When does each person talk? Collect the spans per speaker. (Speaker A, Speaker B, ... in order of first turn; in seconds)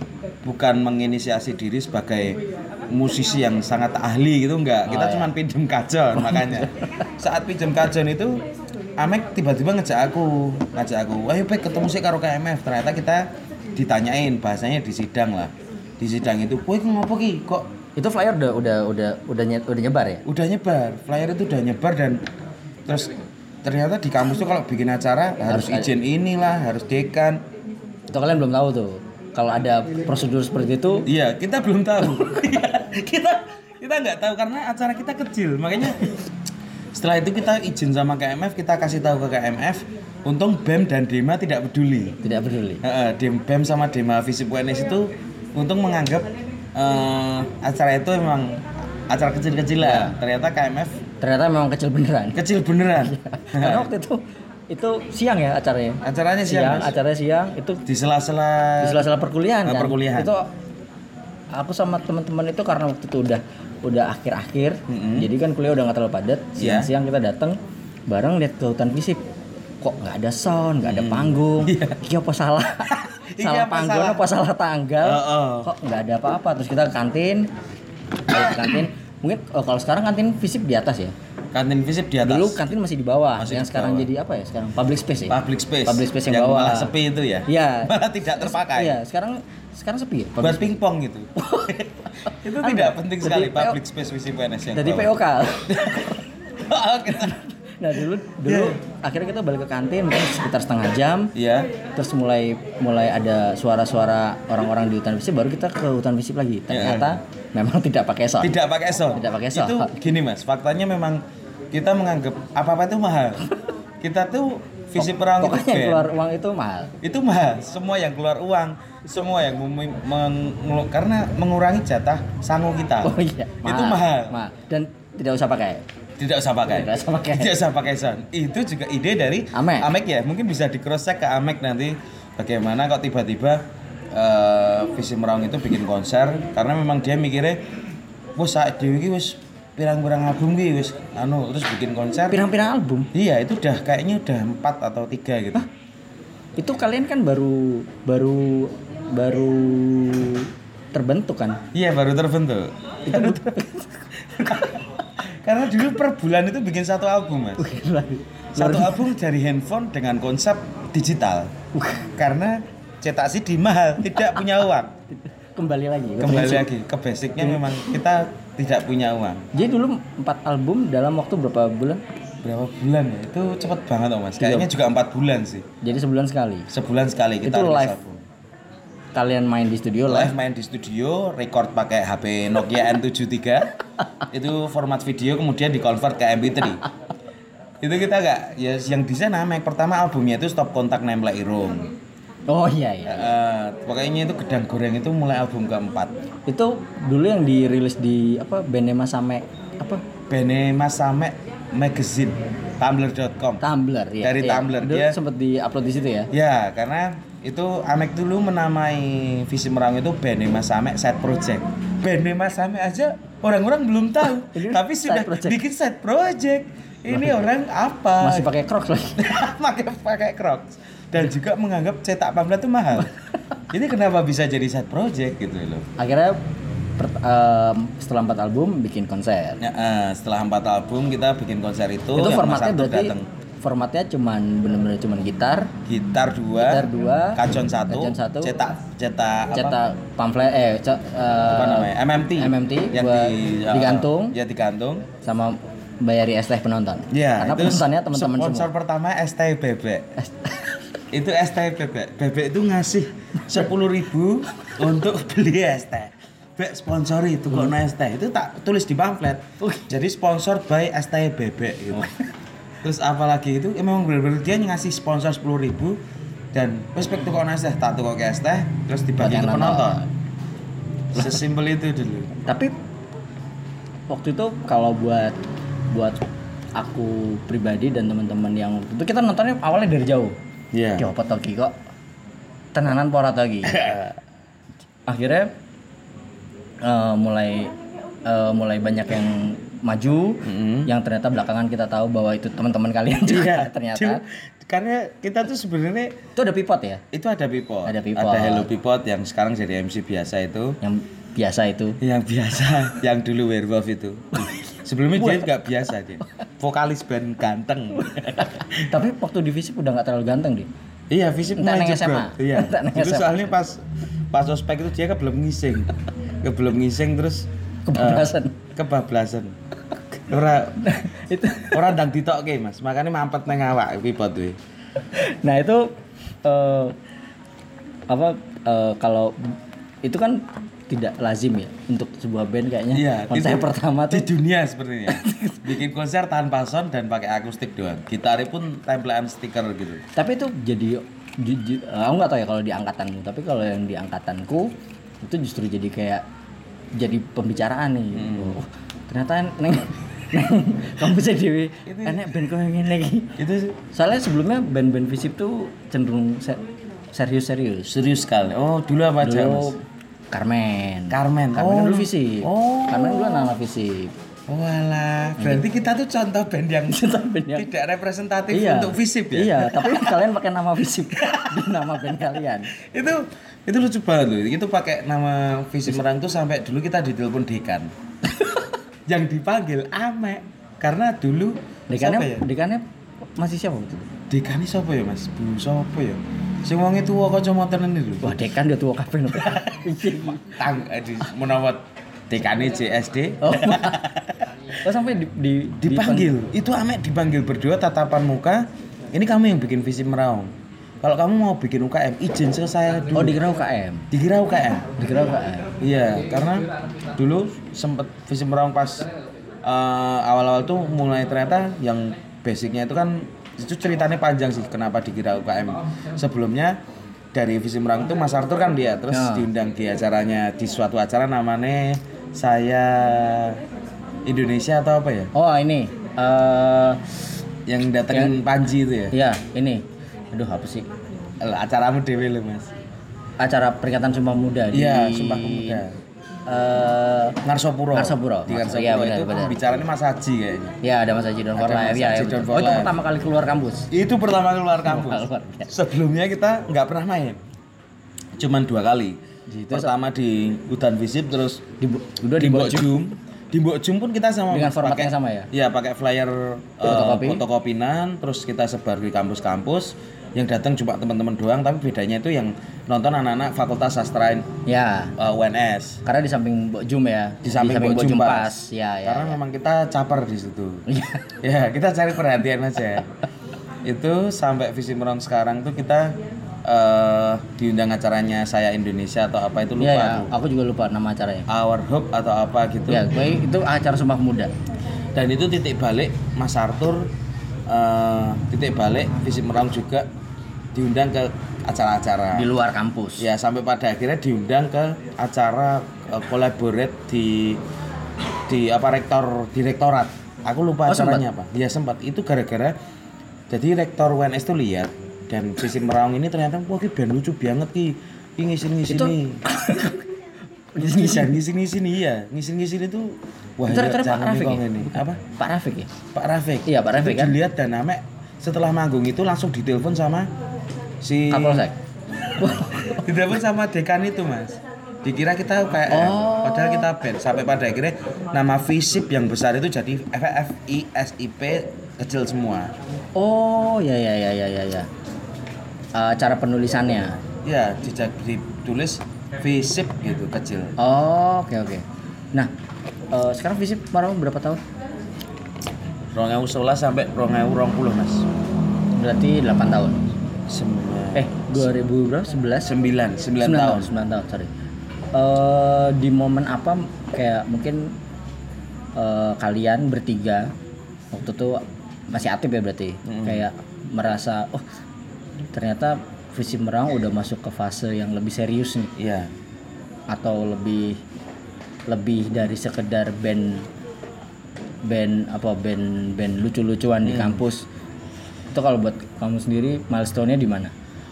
Speaker A: 0.4-8.4, 9.0-17.7, 20.2-22.2, 22.9-27.4, 31.1-36.1, 36.9-42.2, 42.8-51.0, 52.3-53.9, 56.0-56.9, 57.9-59.1, 59.6-60.3, 64.9-65.3, 66.6-66.9, 70.8-72.0, 72.9-74.2, 75.0-75.7, 78.3-78.8, 81.5-82.7, 83.4-84.1, 85.3-89.0, 90.4-97.4, 98.4-98.8, 101.3-101.7, 106.7-107.2, 108.4-113.5, 114.0-116.1, 117.0-124.3, 126.2-137.6, 138.3-142.4, 143.1-145.7, 151.7-153.6, 154.2-157.7, 158.6-161.5, 162.2-164.9, 166.2-169.5, 172.4-175.7, 176.7-178.2, 180.1-183.7, 184.3-186.8, 187.8-191.9, 193.1-196.1, 200.3-203.6, 204.2-205.2, 206.3-218.5, 219.2-223.1, 223.7-225.8, 229.6-233.3, 235.8-239.8, 241.5-245.1, 247.1-250.1, 251.1-262.1, 262.8-266.0, 266.5-270.0, 271.1-272.3, 280.7-281.1, 283.6-284.1, 290.4-290.9, 293.2-296.2, 297.1-300.8, 302.0-308.9, 311.1-319.6, 320.2-320.9, 321.7-324.6, 332.9-340.0, 348.1-348.6, 351.9-352.4, 353.4-353.8, 357.9-359.7, 361.1-363.5, 364.5-370.2, 371.1-377.9, 379.1-382.4, 384.3-388.5, 389.3-394.5, 395.8-403.4, 404.1-404.9, 405.8-409.1, 409.6-416.8, 417.3-423.6, 424.2-425.3, 427.7-429.1, 431.4-432.7, 434.7-436.0, 437.4-440.8, 441.6-442.9, 443.9-447.4, 448.4-451.6, 452.4-464.5, 465.2-466.0, 467.4-470.8, 471.4-473.1, 473.8-480.3, 481.5-483.1, 485.1-487.1, 487.7-490.1, 490.7-492.5, 493.2-497.6, 498.5-502.7, 503.5-509.4, 510.8-515.2, 516.1-520.3, 521.0-521.7, 522.4-532.7, 537.4-540.7, 546.1-548.3, 550.5-551.7, 552.6-553.9, 563.0-563.4, 569.0-569.3, 577.0-577.4
Speaker B: 4.9-5.3, 6.2-7.0, 17.9-20.2, 25.5-25.9, 28.1-31.1, 42.2-42.8, 49.8-50.1, 51.2-52.4, 53.0-57.8, 58.8-60.5, 61.5-69.2, 69.8-77.5, 78.3-81.1, 82.2-86.9, 87.5-90.7, 91.3-93.8, 94.7-96.2, 97.1-101.3, 101.9-108.5, 109.1-109.9, 115.0-116.9, 123.0-125.8, 126.7-127.5, 129.5-129.9, 142.3-143.1, 146.6-151.6, 153.1-154.8, 157.6-159.1, 161.7-162.1, 165.1-166.7, 169.5-172.0, 174.4-174.7, 175.8-176.7, 177.4-178.0, 179.1-180.3, 192.5-193.3, 196.5-200.0, 203.6-206.3, 214.5-215.6, 217.1-217.4, 218.2-219.3, 226.0-226.4, 227.0-229.6, 232.2-235.7, 236.6-238.6, 239.5-244.4, 245.2-248.7, 250.2-250.8, 259.6-259.9, 261.9-262.2, 269.2-270.1, 272.4-272.7, 274.1-275.4, 275.9-276.2, 276.8-280.4, 281.0-281.7, 282.7-284.0, 285.1-285.5, 286.8-287.7, 288.2-294.2, 296.4-297.0, 297.9-298.7, 300.8-302.0, 304.4-305.5, 308.0-310.7, 311.5-313.4, 317.9-318.6, 320.8-321.9, 325.0-327.0, 328.1-334.3, 335.1-335.7, 340.1-346.2, 346.9-353.4, 353.9-357.9, 359.2-359.8, 360.3-364.1, 366.9-367.7, 368.5-372.7, 378.3-378.6, 381.9-382.8, 383.4-384.1, 388.2-390.6, 393.4-394.0, 394.8-396.3, 403.1-404.1, 405.0-405.7, 419.1-419.5, 425.3-427.1, 428.1-428.4, 429.1-430.9, 433.4-435.8, 436.5-437.4, 437.9-439.8, 440.8-443.9, 444.9-445.7, 449.5-449.9, 451.8-453.0, 454.5-455.5, 456.8-457.4, 464.6-465.1, 466.0-469.4, 470.9-471.3, 479.8-481.5, 482.9-484.5, 492.3-493.3, 500.9-501.2, 508.9-510.1, 510.7-511.4, 513.7-515.9, 516.6-517.4, 521.3-521.8, 522.4-523.0, 525.9-526.9, 533.1-534.9, 535.9-537.2, 540.8-542.5, 543.1-544.6, 549.0-550.0, 551.1-552.7, 553.4-554.5, 555.1-558.0, 559.0-560.5, 561.1-564.6, 565.5-568.9, 570.1-571.0, 571.9-573.7, 574.8-577.6, 578.5-580.7